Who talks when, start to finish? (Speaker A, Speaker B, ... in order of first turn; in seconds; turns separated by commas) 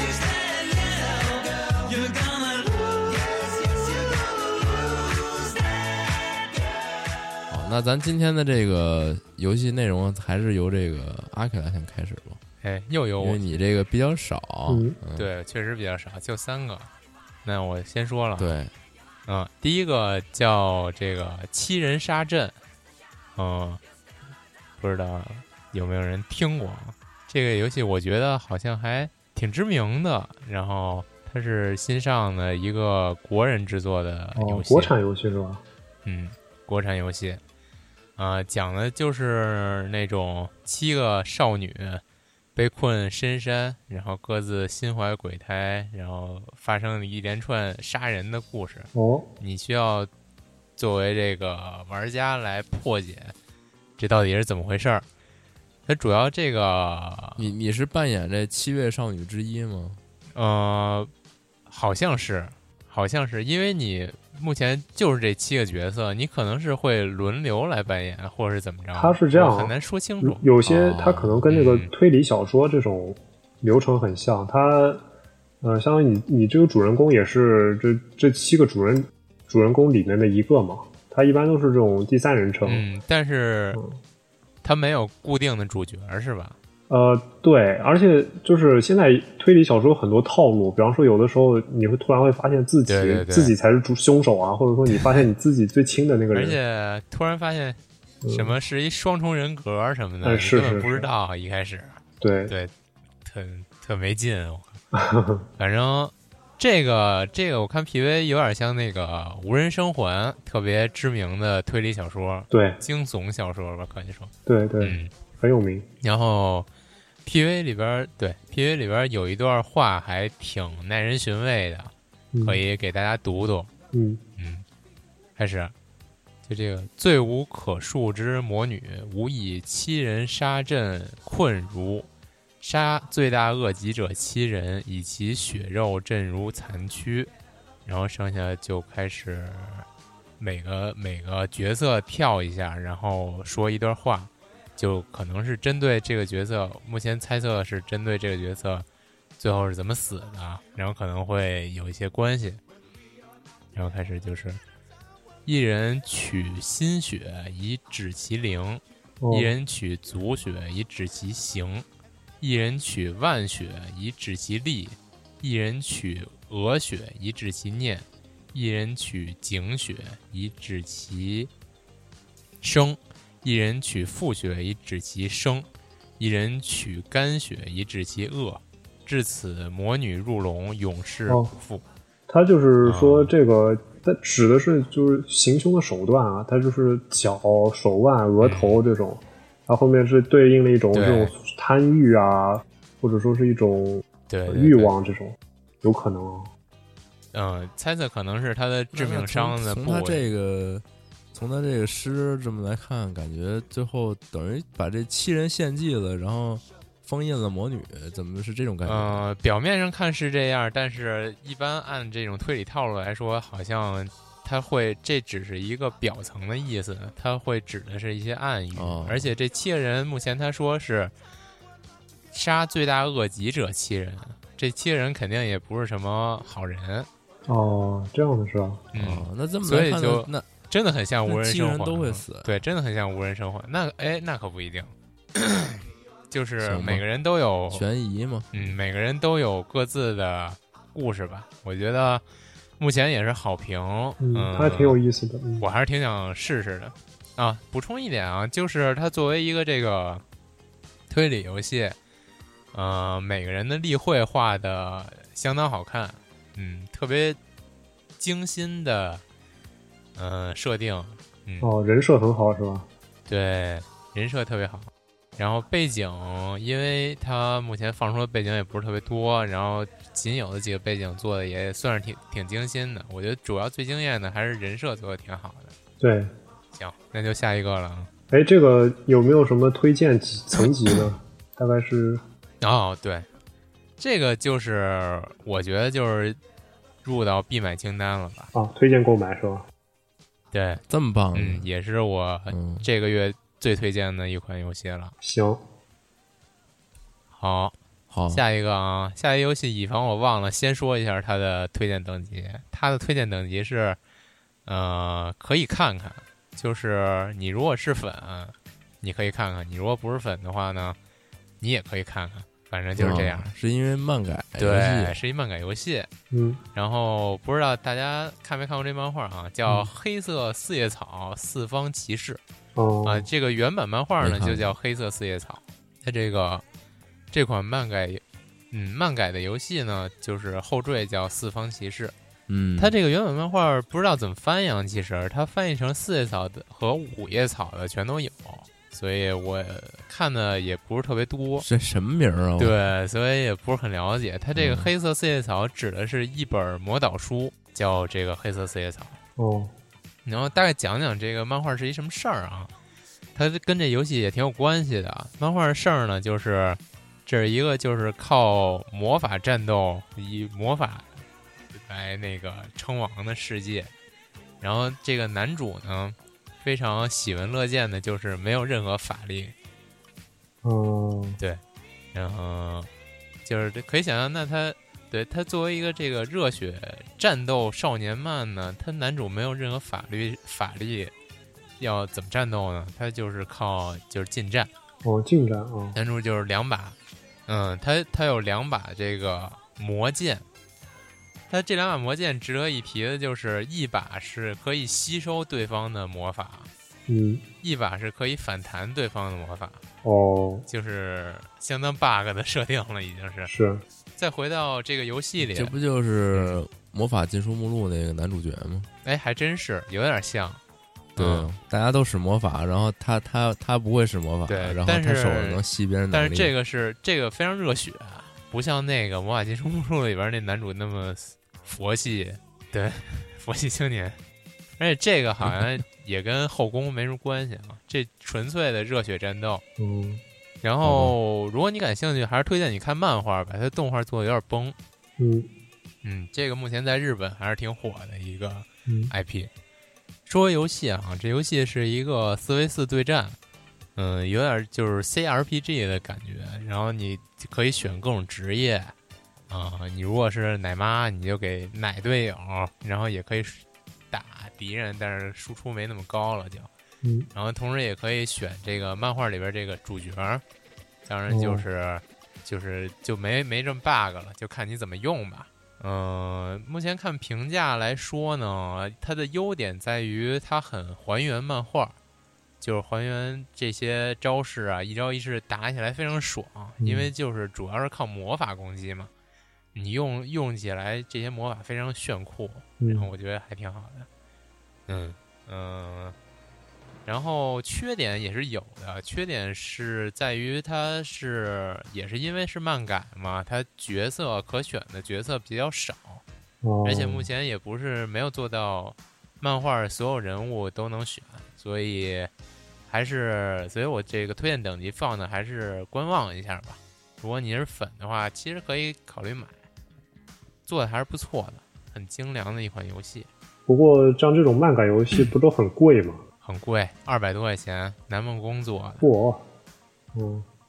Speaker A: 7.5-12.4, Speaker B: 12.6-13.4, Speaker A: 13.2-15.3, Speaker C: 14.7-14.9, Speaker B: 15.1-16.9, Speaker B: 17.4-18.6, Speaker A: 18.4-18.7, Speaker B: 19.2-22.5, Speaker B: 23.4-23.8, Speaker B: 24.8-34.9, Speaker C: 34.4-35.6, Speaker B: 36.0-37.4, Speaker B: 38.2-42.0, Speaker B: 42.5-50.1, Speaker C: 48.9-49.3, Speaker B: 50.8-53.3, Speaker B: 54.0-55.0, Speaker B: 55.9-57.5, Speaker A: 57.4-60.0, Speaker B: 60.3-61.1, Speaker B: 61.7-70.5, Speaker C: 68.9-75.0, Speaker A: 70.7-71.4, Speaker B: 71.5-71.9, Speaker C: 75.6-82.8, Speaker B: 82.6-83.8, Speaker B: 84.6-86.5, Speaker C: 86.9-96.6, Speaker B: 92.8-93.5, Speaker B: 94.9-95.2, Speaker B: 96.3-102.7, Speaker C: 98.2-98.5, Speaker C: 100.2-101.1, Speaker C: 102.2-102.5, Speaker B: 103.2-104.8, Speaker C: 104.9-105.4, Speaker B: 105.6-115.1, Speaker C: 112.5-112.8, Speaker C: 114.5-115.9, Speaker B: 116.0-116.7, Speaker B: 117.2-121.9, Speaker C: 122.3-122.6, Speaker B: 122.4-123.7, Speaker C: 123.9-124.2, Speaker B: 124.4-124.6, Speaker B: 125.4-125.7, Speaker B: 126.5-132.1, Speaker B: 132.6-137.3, Speaker B: 137.8-139.8, Speaker B: 140.4-148.8, Speaker B: 149.4-152.6, Speaker B: 153.7-154.6, Speaker B: 155.4-161.8, Speaker C: 159.2-159.5, Speaker B: 162.4-171.5, Speaker B: 172.6-175.7, Speaker B: 176.2-181.8, Speaker C: 182.3-196.5, Speaker B: 182.8-183.3, Speaker B: 188.4-188.8, Speaker B: 190.9-191.3, Speaker B: 194.3-194.9, Speaker B: 197.3-200.2, Speaker A: 198.9-209.2, Speaker B: 208.8-221.1, Speaker A: 218.7-219.3, Speaker B: 222.3-227.1, Speaker C: 227.5-228.8, Speaker B: 228.9-237.8, Speaker A: 228.9-230.5, Speaker A: 231.2-232.6, Speaker A: 236.6-237.0, Speaker A: 237.7-238.7, Speaker B: 238.5-242.2, Speaker B: 242.8-245.0, Speaker C: 244.2-245.7, Speaker B: 245.6-250.2, Speaker B: 251.1-251.9, Speaker B: 252.7-257.4, Speaker B: 258.2-259.2, Speaker B: 260.2-261.7, Speaker C: 261.6-262.9, Speaker B: 263.3-275.7, Speaker C: 276.0-276.3, Speaker B: 276.7-278.1, Speaker C: 278.3-282.2, Speaker B: 282.6-283.3, Speaker B: 284.0-286.4, Speaker B: 287.0-288.5, Speaker C: 288.5-289.6, Speaker B: 290.5-290.8, Speaker A: 290.9-291.6, Speaker B: 291.3-295.1, Speaker A: 292.5-292.9, Speaker C: 295.2-295.6, Speaker B: 297.4-297.8, Speaker A: 298.1-298.4, Speaker B: 298.3-304.0, Speaker B: 304.6-311.0, Speaker B: 311.6-313.5, Speaker A: 313.0-315.2, Speaker B: 314.6-316.1, Speaker C: 316.3-316.6, Speaker B: 316.7-322.4, Speaker C: 319.6-319.9, Speaker C: 322.8-323.3, Speaker B: 323.0-326.6, Speaker A: 324.2-324.7, Speaker B: 327.3-332.1, Speaker A: 332.5-332.9, Speaker B: 332.8-341.7, Speaker A: 341.6-342.8, Speaker B: 342.6-349.2, Speaker A: 344.6-344.9, Speaker C: 349.4-349.7, Speaker B: 350.2-352.7, Speaker B: 353.3-363.9, Speaker B: 364.6-369.5, Speaker C: 370.6-371.4, Speaker B: 372.1-372.9, Speaker B: 373.4-381.1, Speaker B: 381.8-384.7, Speaker C: 385.0-385.9, Speaker B: 385.9-390.4, Speaker B: 391.5-396.7, Speaker C: 397.1-397.4, Speaker B: 397.6-399.8, Speaker C: 400.0-400.7, Speaker B: 400.7-403.5, Speaker C: 403.4-403.8, Speaker B: 404.2-405.7, Speaker A: 405.4-408.9, Speaker B: 406.3-406.6, Speaker B: 409.0-410.6, Speaker A: 411.1-416.5, Speaker B: 411.2-411.5, Speaker B: 414.5-424.2, Speaker B: 424.8-429.6, Speaker C: 429.8-430.2, Speaker B: 430.6-434.8, Speaker A: 430.8-431.1, Speaker C: 435.2-435.5, Speaker B: 436.0-439.5, Speaker C: 438.9-439.1, Speaker B: 440.2-443.4, Speaker B: 443.9-448.9, Speaker B: 449.5-456.7, Speaker C: 457.0-457.3, Speaker B: 457.3-460.4, Speaker B: 461.1-471.9, Speaker C: 461.3-461.6, Speaker B: 472.6-479.1, Speaker C: 476.8-477.1, Speaker B: 479.7-484.1, Speaker C: 482.8-483.1, Speaker B: 484.9-486.1, Speaker B: 487.1-496.2, Speaker C: 496.6-497.3, Speaker B: 496.8-502.3, Speaker B: 502.9-509.6, Speaker B: 510.6-513.3, Speaker C: 513.7-516.2, Speaker B: 516.4-519.0, Speaker C: 519.0-519.4, Speaker C: 520.1-520.5